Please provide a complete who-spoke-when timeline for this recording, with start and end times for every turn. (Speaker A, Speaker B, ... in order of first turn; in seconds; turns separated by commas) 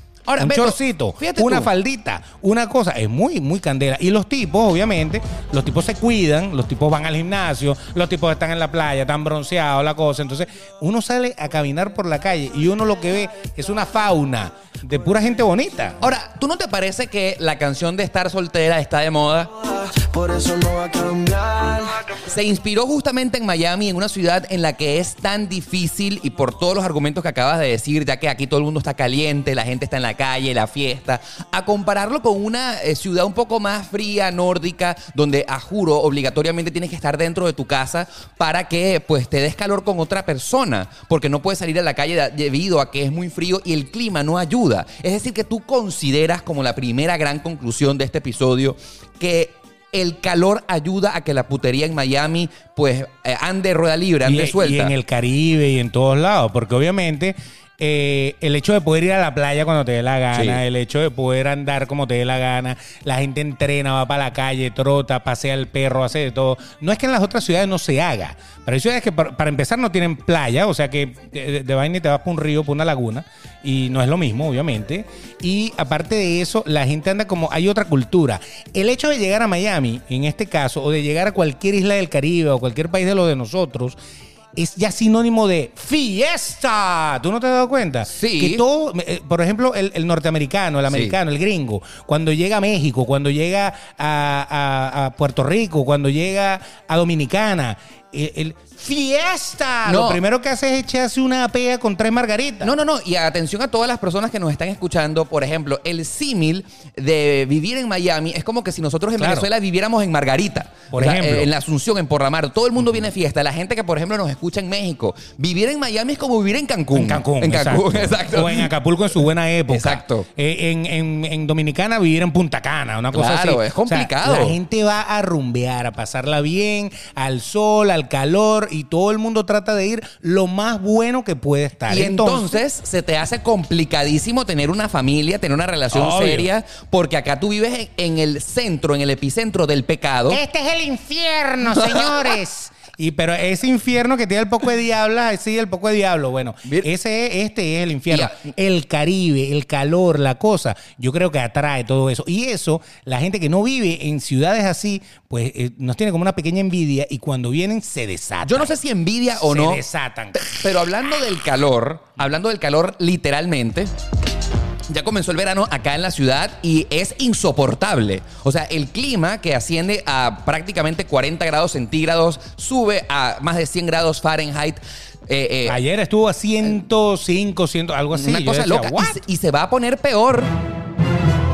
Speaker A: 0.3-1.7, Speaker B: 0.4-16.0, Speaker A: 16.0-19.5, Speaker C: 19.5-22.1, Speaker A: 22.3-54.9, Speaker B: 54.2-84.0, Speaker A: 60.3-60.6, Speaker B: 84.5-102.7, Speaker A: 88.1-88.6, Speaker A: 90.9-91.2, Speaker A: 99.8-100.2, Speaker A: 102.6-118.7, Speaker B: 109.2-109.5, Speaker B: 110.9-111.5, Speaker B: 116.9-132.6, Speaker A: 119.7-120.3, Speaker A: 123.1-124.5, Speaker A: 131.9-140.4, Speaker B: 135.9-136.5, Speaker B: 140.3-158.8, Speaker A: 141.7-142.3, Speaker A: 148.1-148.5, Speaker A: 158.4-159.8, Speaker B: 159.4-160.7, Speaker A: 160.4-163.9, Speaker A: 164.9-175.8, Speaker B: 175.7-179.2, Speaker A: 178.1-180.5